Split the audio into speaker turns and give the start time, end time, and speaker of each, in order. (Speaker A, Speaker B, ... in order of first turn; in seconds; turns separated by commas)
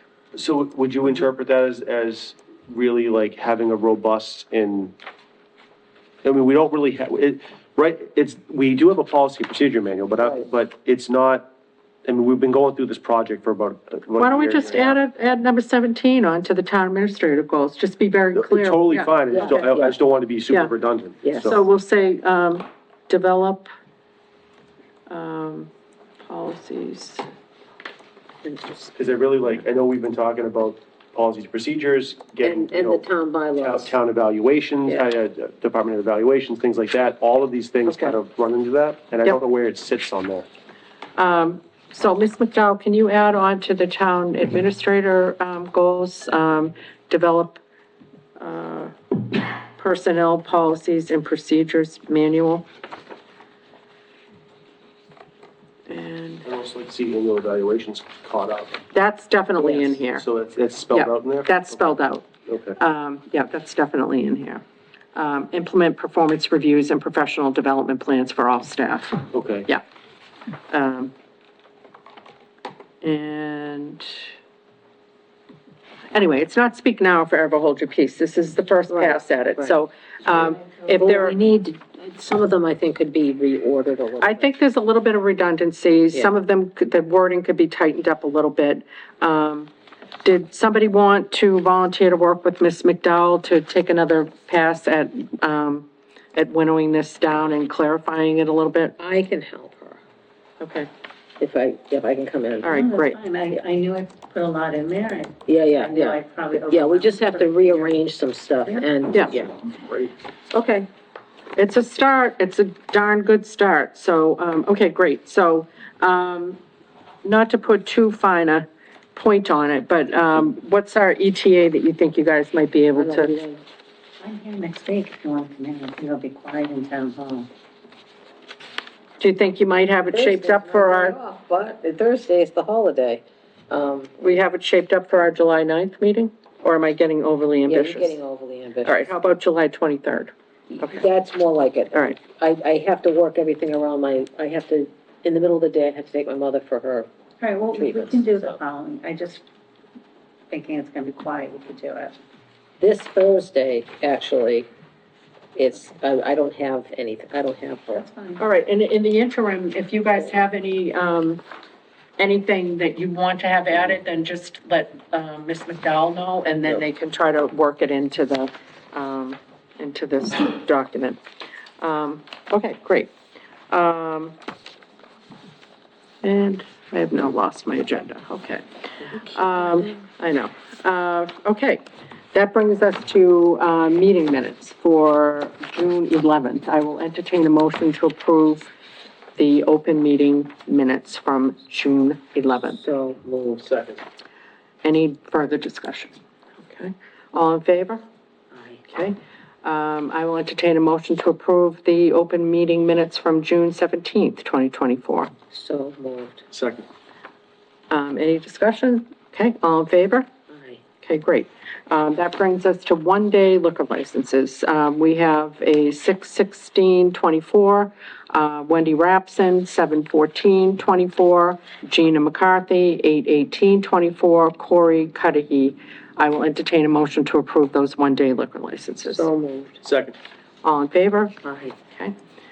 Speaker A: 0.3-4.9, Speaker A: 6.2-11.5, Speaker A: 12.1-15.0, Speaker B: 14.2-19.8, Speaker A: 18.3-21.6, Speaker C: 19.3-19.9, Speaker C: 21.2-21.6, Speaker B: 21.4-23.7, Speaker B: 25.1-25.7, Speaker B: 26.2-27.2, Speaker C: 28.4-28.9, Speaker A: 28.9-33.0, Speaker C: 32.4-33.9, Speaker A: 33.6-40.5, Speaker B: 37.9-38.2, Speaker B: 41.1-47.6, Speaker B: 48.4-52.6, Speaker B: 55.9-56.5, Speaker A: 56.4-58.8, Speaker B: 58.9-60.2, Speaker A: 59.7-61.9, Speaker B: 60.9-64.6, Speaker A: 62.5-62.8, Speaker B: 65.1-69.8, Speaker A: 69.3-69.7, Speaker B: 70.7-71.1, Speaker B: 73.0-74.1, Speaker B: 76.1-81.4, Speaker C: 78.9-79.8, Speaker C: 80.9-84.5, Speaker B: 84.2-89.7, Speaker B: 90.2-98.9, Speaker C: 99.0-100.0, Speaker B: 100.6-100.9, Speaker C: 101.4-102.7, Speaker B: 102.6-103.2, Speaker D: 102.7-108.0, Speaker C: 105.5-109.6, Speaker D: 108.6-109.0, Speaker B: 109.1-109.4, Speaker C: 110.5-110.9, Speaker B: 111.5-116.6, Speaker B: 117.2-123.3, Speaker C: 122.9-123.6, Speaker D: 124.2-127.5, Speaker B: 129.2-131.2, Speaker C: 130.1-134.3, Speaker B: 134.2-138.2, Speaker C: 137.7-139.1, Speaker B: 138.8-141.1, Speaker C: 140.7-147.1, Speaker D: 147.4-149.4, Speaker C: 147.7-148.6, Speaker D: 150.5-152.2, Speaker C: 152.8-154.7, Speaker C: 155.5-158.1, Speaker D: 157.9-158.4, Speaker B: 158.4-161.4, Speaker B: 162.2-171.2, Speaker B: 171.8-173.1, Speaker B: 173.7-174.3, Speaker B: 176.2-178.6, Speaker C: 179.1-179.9, Speaker B: 179.2-181.8, Speaker B: 182.3-188.7, Speaker B: 189.3-192.8, Speaker C: 192.8-193.9, Speaker A: 193.7-194.0, Speaker B: 194.8-198.0, Speaker C: 198.5-198.8, Speaker B: 198.9-205.3, Speaker C: 205.5-206.5, Speaker A: 206.5-206.8, Speaker B: 207.9-210.3, Speaker C: 210.5-210.8, Speaker B: 211.0-229.3, Speaker C: 229.1-229.8, Speaker A: 229.8-230.1, Speaker B: 230.6-231.3, Speaker C: 231.4-231.7